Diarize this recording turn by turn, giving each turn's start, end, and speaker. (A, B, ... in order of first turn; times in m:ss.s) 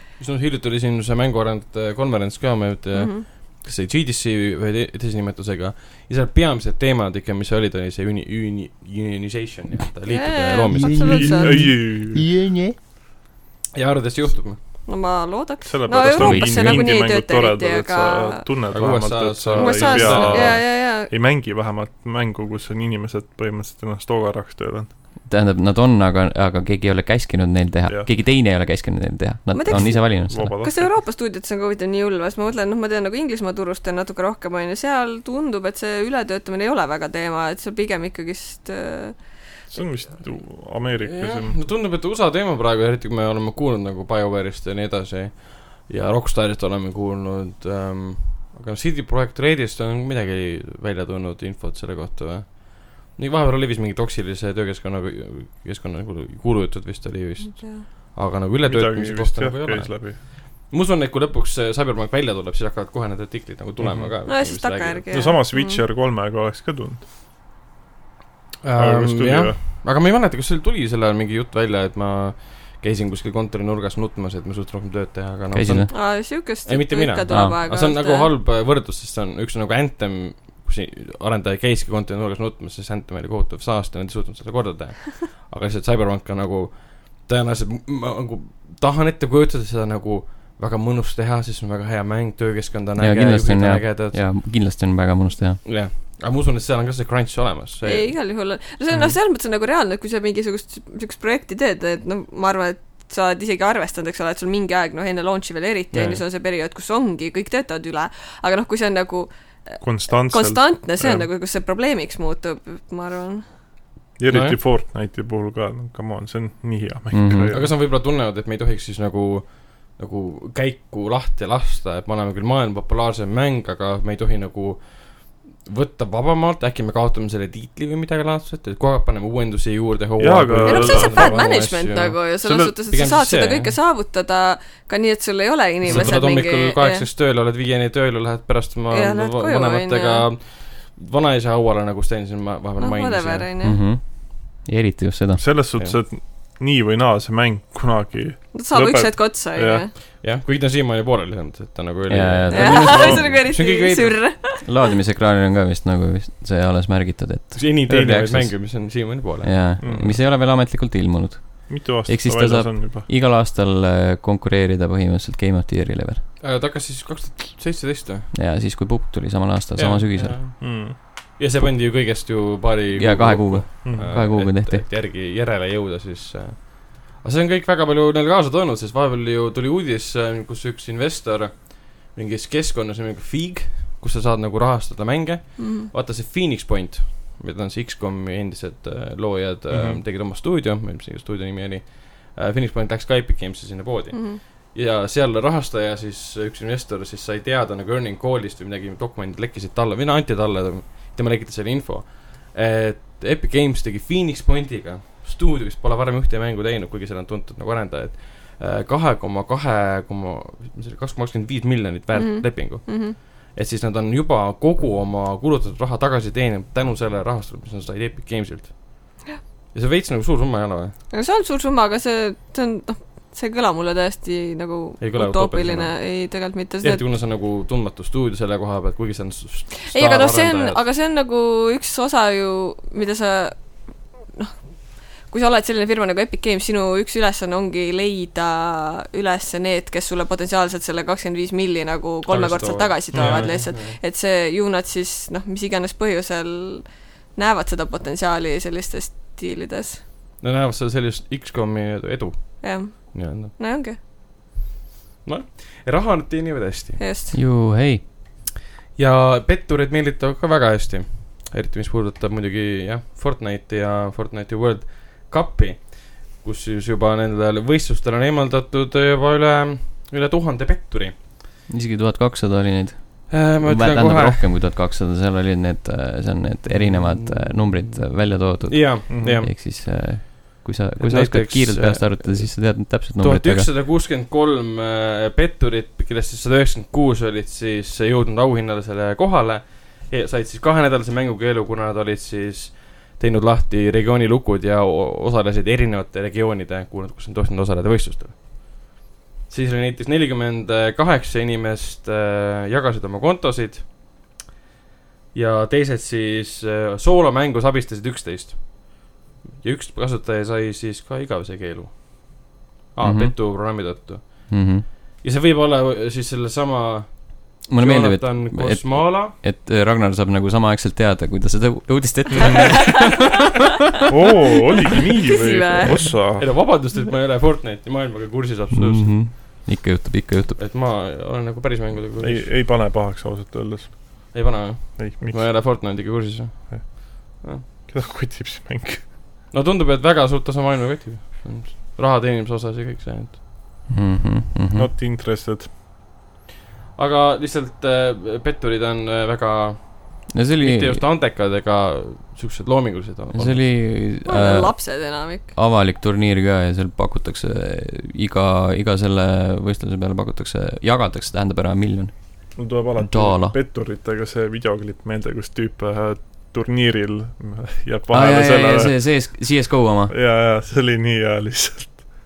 0:00.2-0:11.4 A
0:02.9-0:03.2 B
0:10.1-0:11.6 B
0:10.7-0:12.8 C
0:11.1-0:12.3 D
0:13.7-0:14.6 A
0:14.8-0:18.4 B
0:15.6-0:24.9 D
0:16.0-0:16.9 C
0:18.7-0:20.6 A
0:19.5-0:21.1 B
0:25.3-0:30.6 C
0:29.5-0:39.6 B
0:29.7-0:31.0 D
0:39.7-0:41.6 D
0:41.0-1:05.0 A
0:57.5-0:57.8 B
0:58.6-1:00.2 D
1:03.8-1:04.1 D
1:04.3-1:05.8 B
1:05.1-1:07.0 D
1:08.6-1:16.1 A
1:08.8-1:09.6 D
1:15.5-1:15.9 C
1:15.9-1:18.3 B
1:16.6-1:34.2 A
1:17.3-1:17.6 C
1:33.0-1:35.6 C
1:35.6-1:38.1 A
1:37.8-1:53.4 B
1:45.9-1:46.2 A
1:49.8-1:51.3 D
1:54.2-1:57.7 D
1:54.3-1:54.6 A
1:57.1-1:57.6 C
1:57.5-2:13.7 A
2:10.2-2:11.5 D
2:10.6-2:17.0 B
2:12.4-2:12.7 D
2:15.8-2:23.5 A
2:18.9-2:20.2 B
2:22.8-2:23.8 B
2:23.6-2:25.4 C
2:25.4-2:29.8 D
2:28.5-2:29.9 B
2:30.1-2:34.2 A
2:32.1-2:33.3 C
2:32.5-2:34.7 B
2:34.6-2:46.2 C
2:37.5-2:39.9 A
2:39.8-2:40.2 D
2:41.7-2:43.1 D
2:46.4-2:48.3 A
2:48.3-2:50.4 C
2:49.7-3:39.2 A
2:50.6-2:51.0 D
2:53.0-2:54.8 C
2:53.8-2:54.2 D
3:05.6-3:05.9 B
3:09.7-3:10.0 D
3:14.1-3:14.4 B
3:32.1-3:33.2 B
3:39.7-3:40.9 A
3:41.1-3:47.0 B
3:45.0-3:46.1 A
3:46.8-3:50.8 A
3:49.9-4:10.0 B
4:02.3-4:04.0 A
4:03.1-4:03.5 D
4:10.4-4:13.5 A
4:12.6-4:14.0 B
4:15.2-4:17.0 A
4:17.0-4:17.4 B
4:17.3-4:18.0 C
4:19.0-4:31.2 A
4:31.7-4:43.7 C
4:33.3-4:34.4 A
4:36.7-4:39.5 A
4:39.1-4:39.4 D
4:41.0-4:58.9 A
4:59.5-5:04.2 A
5:05.3-5:19.3 A
5:13.0-5:13.8 C
5:14.5-5:14.8 C
5:17.7-5:23.1 C
5:22.4-5:22.8 D
5:24.1-5:26.6 D
5:25.2-5:26.1 B
5:26.4-5:29.3 A
5:28.7-5:30.6 C
5:30.6-5:32.5 A
5:32.2-5:36.1 D
5:34.3-5:37.6 A
5:36.7-5:39.1 D
5:39.5-5:43.4 A
5:43.9-5:44.9 C
5:44.7-5:45.7 D
5:47.0-5:53.7 A
5:50.3-5:51.0 C
5:53.3-6:03.6 C
5:54.2-5:55.5 B
6:02.6-6:09.2 D
6:08.1-6:10.1 C
6:10.1-6:12.2 D